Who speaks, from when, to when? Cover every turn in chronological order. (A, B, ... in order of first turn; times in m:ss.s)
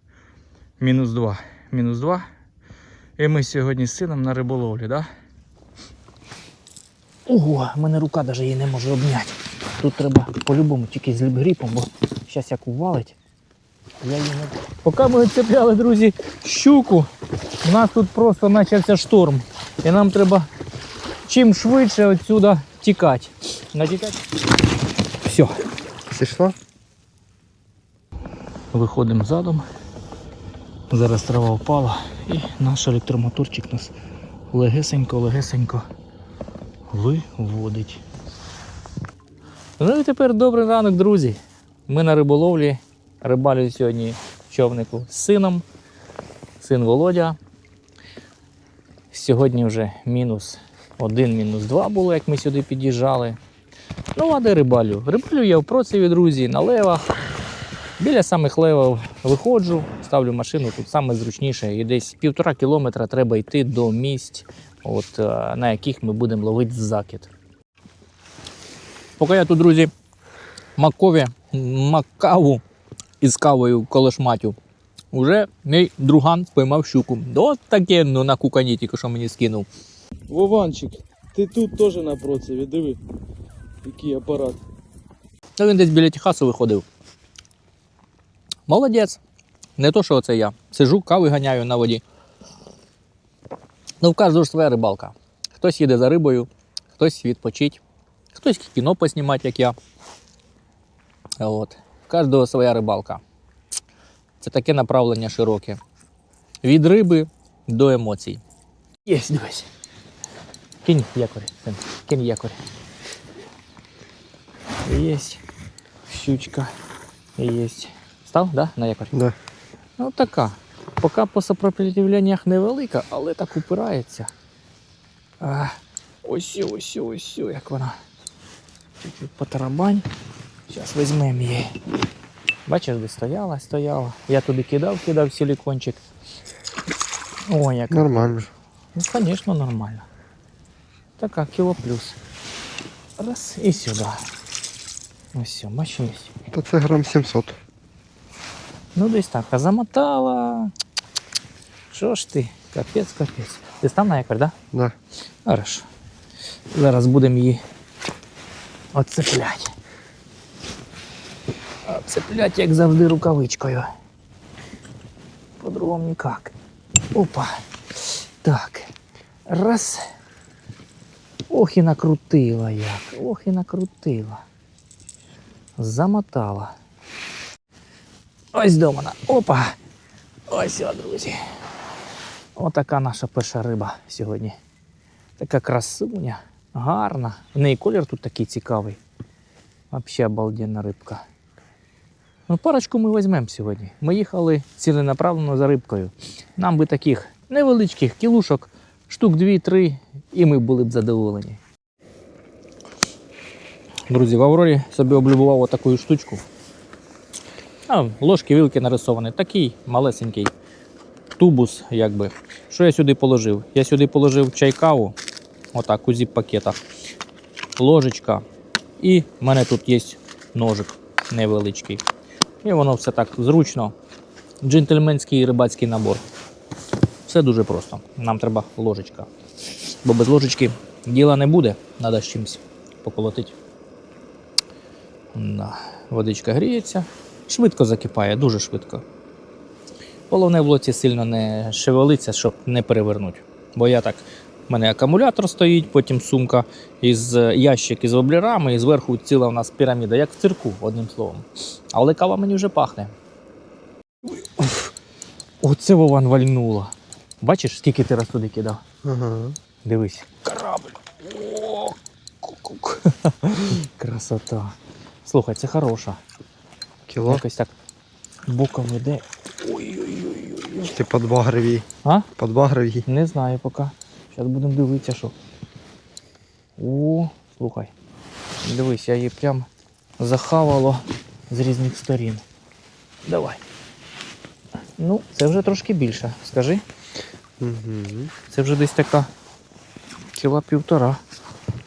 0:00.8-0:02.2 A
0:03.2-0:05.1 A
0:07.3-0:13.2 A
0:14.0-0:17.1 A
0:17.6-0:20.5 A
0:21.3-0:24.2 A
0:25.2-0:25.5 A
0:26.1-0:26.6 B
0:28.7-0:29.6 A
0:30.9-0:33.9 A
0:34.5-0:35.8 A
0:36.9-0:38.0 A
0:39.8-0:45.6 A
0:46.6-0:47.4 A
0:49.1-0:53.4 A
0:54.1-0:57.1 A
0:58.0-1:07.3 A
1:09.2-1:09.9 A
1:10.8-1:12.6 A
1:13.2-1:14.6 A
1:15.1-1:19.7 A
1:20.3-1:23.0 C
1:23.8-1:24.6 C
1:25.6-1:26.8 A
1:28.7-1:29.2 A
1:29.8-1:32.0 A
1:34.0-1:37.8 A
1:38.3-1:39.8 A
1:41.4-1:43.2 A
1:44.4-1:45.8 A
1:46.6-1:48.4 A
1:49.0-1:49.7 A
1:50.8-1:52.6 A
1:54.8-1:55.4 A
1:56.1-1:56.7 A
1:57.4-1:59.2 A
2:00.0-2:04.3 A
2:05.4-2:08.0 A
2:09.0-2:10.0 A
2:10.7-2:11.7 A
2:12.6-2:16.0 A
2:17.5-2:18.4 A
2:17.9-2:18.5 B
2:18.9-2:20.0 A
2:21.2-2:22.2 A
2:23.2-2:24.2 A
2:25.3-2:26.3 A
2:26.5-2:27.6 B
2:28.9-2:30.7 A
2:31.9-2:34.5 A
2:35.4-2:35.8 A
2:36.7-2:37.6 A
2:38.9-2:39.7 A
2:41.8-2:43.9 A
2:45.6-2:46.5 A
2:47.1-2:48.9 A
2:49.5-2:50.0 A
2:51.5-2:54.4 A
2:55.8-2:56.7 A
2:58.5-2:59.7 A
3:00.5-3:01.4 A
3:02.6-3:04.6 A
3:05.4-3:09.0 A
3:09.9-3:11.2 A
3:12.5-3:21.6 A
3:24.1-3:26.4 A
3:27.9-3:30.5 A
3:31.4-3:35.2 A
3:35.7-3:36.8 A
3:37.8-3:38.4 A
3:39.0-3:42.0 A
3:42.6-3:43.9 A
3:44.6-3:46.2 A
3:47.2-3:49.3 A
3:50.0-3:53.5 A
3:55.3-3:59.0 A
4:00.3-4:13.1 A
4:14.2-4:14.9 A
4:15.6-4:18.8 A
4:19.0-4:19.6 B
4:19.8-4:24.7 A
4:25.2-4:26.2 A
4:27.1-4:27.4 B
4:27.3-4:27.7 A
4:28.5-4:31.0 A
4:30.8-4:31.8 B
4:32.4-4:33.0 B
4:33.0-4:35.3 A
4:36.8-4:37.9 A
4:38.6-4:39.7 A
4:40.2-4:42.4 A
4:43.2-4:43.6 A
4:45.0-4:46.8 A
4:47.6-4:48.3 B
4:48.5-4:49.3 A
4:50.3-4:51.2 A